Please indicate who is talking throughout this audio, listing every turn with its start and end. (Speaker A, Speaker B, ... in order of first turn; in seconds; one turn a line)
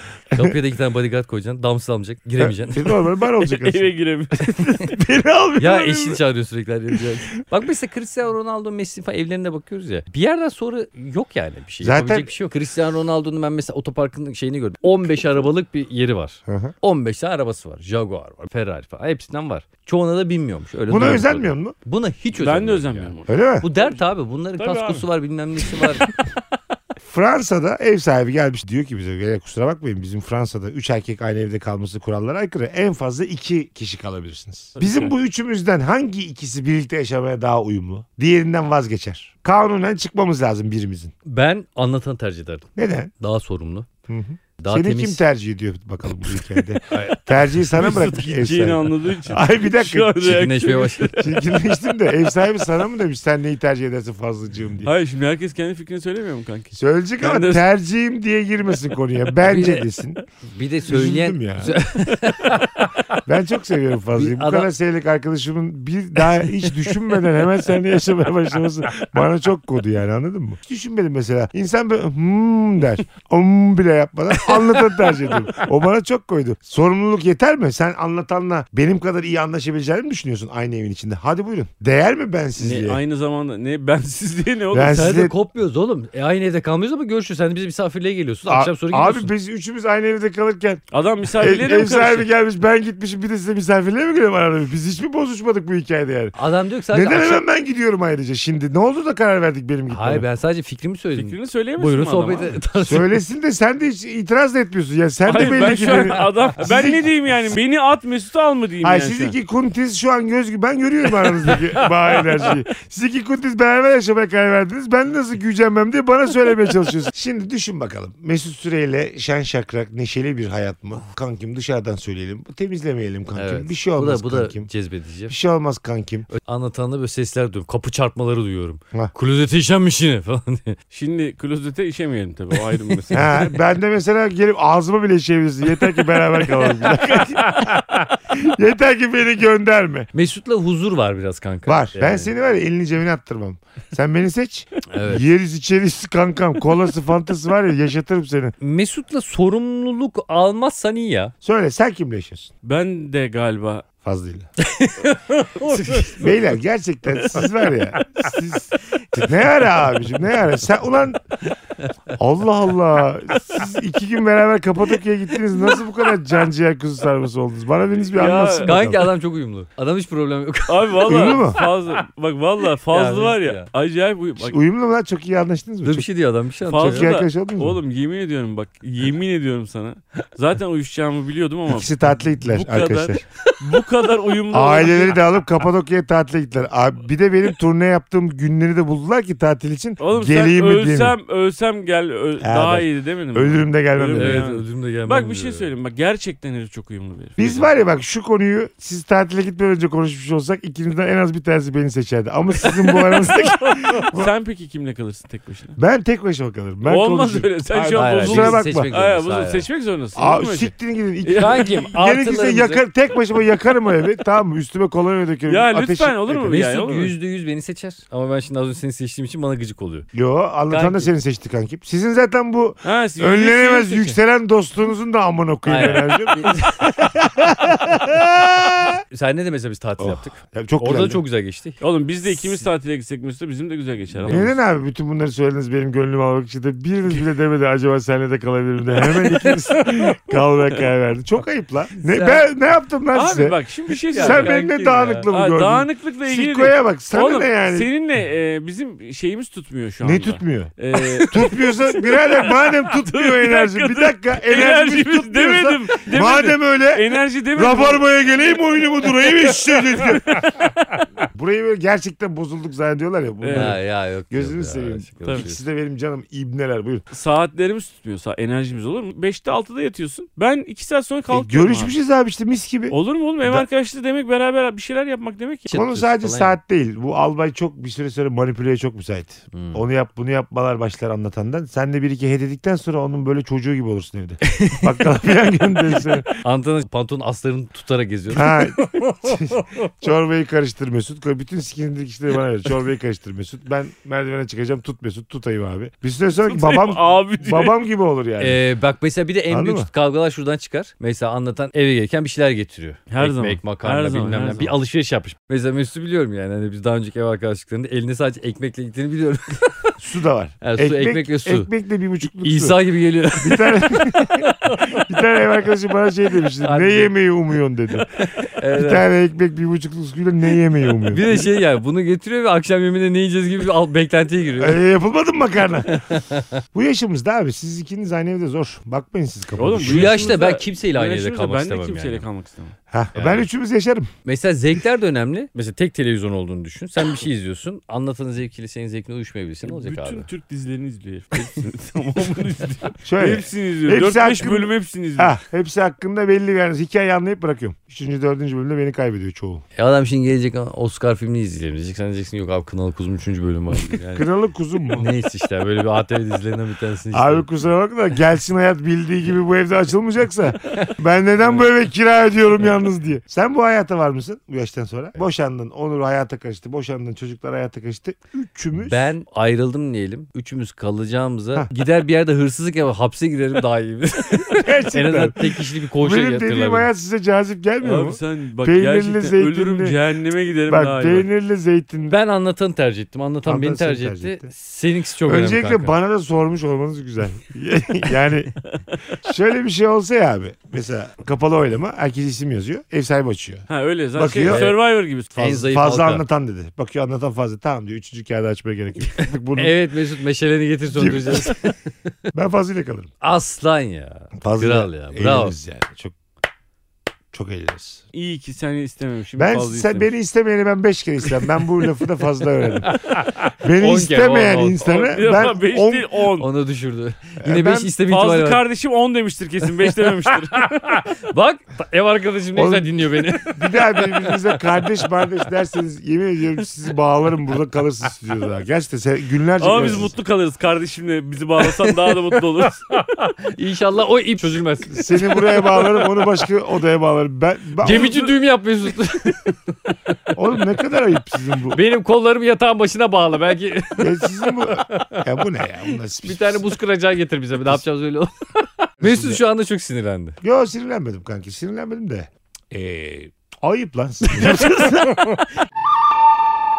Speaker A: 0.3-2.9
Speaker B: 2.4-6.2
Speaker C: 3.4-5.0
Speaker A: 5.6-26.1
Speaker B: 11.8-12.3
Speaker B: 16.5-16.7
Speaker B: 20.9-21.8
Speaker C: 22.4-24.0
Speaker B: 23.3-23.7
Speaker C: 24.6-25.1
Speaker B: 27.1-41.1
Speaker C: 34.8-35.1
Speaker A: 41.3-43.9
Speaker B: 42.8-43.1
Speaker B: 44.1-50.3
Speaker A: 44.6-45.2
Speaker A: 46.9-47.2
Speaker C: 47.6-51.4
Speaker A: 50.2-51.2
Speaker B: 51.2-54.9
Speaker C: 54.8-57.6
Speaker B: 56.7-60.2
Speaker A: 59.4-59.9
Speaker A: 60.4-63.0
Speaker B: 60.9-61.8
Speaker B: 63.2-83.0
Speaker A: 64.1-64.7
Speaker C: 82.6-85.1
Speaker B: 84.7-85.3
Speaker A: 84.8-89.3
Speaker B: 88.5-90.8
Speaker C: 90.9-92.3
Speaker B: 91.3-96.3
Speaker A: 96.3-97.4
Speaker B: 96.9-100.2
Speaker A: 99.9-103.2
Speaker C: 101.2-102.6
Speaker B: 102.8-107.1
Speaker C: 105.3-109.3
Speaker B: 108.8-124.7
Speaker A: 123.4-125.3
Speaker B: 125.3-126.3
Speaker A: 126.3-130.8
Speaker C: 130.9-133.3
Speaker A: 132.9-133.2
Speaker B: 133.1-140.1
Speaker A: 140.1-142.3
Speaker B: 141.7-148.5
Speaker A: 144.9-145.3
Speaker A: 148.6-151.3
Speaker B: 151.4-152.5
Speaker C: 152.6-153.8
Speaker B: 154.0-154.5
Speaker A: 154.6-156.3
Speaker B: 156.2-161.2
Speaker A: 158.0-158.3
Speaker B: 162.2-169.1
Speaker C: 168.1-168.8
Speaker A: 168.6-171.8
Speaker C: 170.7-174.6
Speaker B: 171.1-171.6
Speaker A: 172.9-173.7
Speaker B: 174.4-176.1
Speaker A: 175.8-177.1
Speaker C: 176.7-181.9
Speaker B: 176.8-177.8
Speaker B: 181.7-183.2
Speaker C: 182.5-185.2
Speaker B: 184.5-191.2
Speaker C: 190.0-197.7
Speaker B: 192.4-194.5
Speaker A: 194.2-195.7
Speaker B: 197.4-204.3
Speaker C: 202.7-205.8
Speaker B: 205.8-208.9
Speaker C: 206.9-210.7
Speaker A: 207.9-209.7
Speaker B: 210.2-216.6
Speaker C: 211.2-211.7
Speaker A: 211.4-212.8
Speaker C: 215.5-217.1
Speaker A: 216.5-220.1
Speaker B: 220.1-229.0
Speaker A: 220.7-221.1
Speaker C: 222.8-224.2
Speaker A: 225.7-226.9
Speaker A: 228.6-231.8
Speaker B: 230.0-231.2
Speaker C: 231.8-234.5
Speaker A: 234.2-234.6
Speaker B: 234.3-243.6
Speaker A: 242.0-242.4
Speaker C: 243.1-244.7
Speaker A: 244.1-245.3
Speaker B: 244.2-247.9
Speaker C: 245.3-258.1
Speaker B: 250.0-260.4
Speaker C: 259.1-261.0
Speaker B: 261.3-267.0
Speaker C: 263.4-263.8
Speaker A: 263.5-265.6
Speaker C: 267.1-271.9
Speaker B: 271.3-273.6
Speaker C: 272.9-275.7
Speaker A: 275.7-276.6
Speaker B: 275.7-286.3
Speaker A: 279.5-279.8
Speaker A: 284.5-284.9
Speaker A: 286.4-289.3
Speaker B: 288.3-298.6
Speaker C: 296.4-297.8
Speaker A: 298.4-310.0
Speaker B: 299.5-299.9
Speaker C: 303.1-304.7
Speaker B: 310.0-312.8
Speaker A: 310.6-311.7
Speaker A: 312.4-315.0
Speaker B: 313.4-321.5
Speaker A: 316.6-317.1
Speaker A: 318.1-319.1
Speaker A: 321.1-324.8
Speaker B: 324.6-326.0
Speaker A: 325.9-326.6
Speaker B: 326.7-330.3
Speaker C: 329.6-332.7
Speaker A: 329.8-332.2
Speaker B: 332.9-334.1
Speaker A: 333.1-333.5
Speaker A: 334.2-340.3
Speaker C: 339.6-345.4
Speaker B: 343.1-349.6
Speaker A: 349.8-354.3
Speaker B: 354.1-355.1
Speaker A: 354.9-357.5
Speaker B: 357.1-369.1
Speaker A: 368.8-376.9
Speaker B: 374.5-380.0
Speaker C: 377.8-381.3
Speaker B: 380.7-382.1
Speaker A: 382.1-385.9
Speaker B: 383.4-384.5
Speaker B: 385.2-388.6
Speaker B: 389.2-394.8
Speaker C: 393.7-395.3
Speaker A: 394.5-394.8
Speaker A: 395.4-396.2
Speaker B: 395.4-399.8
Speaker A: 399.5-401.8
Speaker B: 400.9-401.6
Speaker B: 402.3-403.1
Speaker A: 403.2-405.5
Speaker B: 404.4-406.1
Speaker B: 407.3-408.0
Speaker C: 408.1-410.1
Speaker B: 409.4-416.1
Speaker A: 412.8-414.9
Speaker C: 414.8-416.5
Speaker A: 416.4-418.6
Speaker B: 417.4-417.9
Speaker C: 418.1-421.0
Speaker A: 420.2-424.4
Speaker B: 422.6-430.1
Speaker C: 429.6-432.9
Speaker A: 431.6-436.1
Speaker B: 434.9-438.2
Speaker A: 437.8-440.3
Speaker B: 440.3-441.8
Speaker A: 441.7-445.3
Speaker B: 444.0-446.7
Speaker A: 446.2-450.4
Speaker B: 449.0-449.4
Speaker B: 450.4-455.3
Speaker C: 454.4-454.9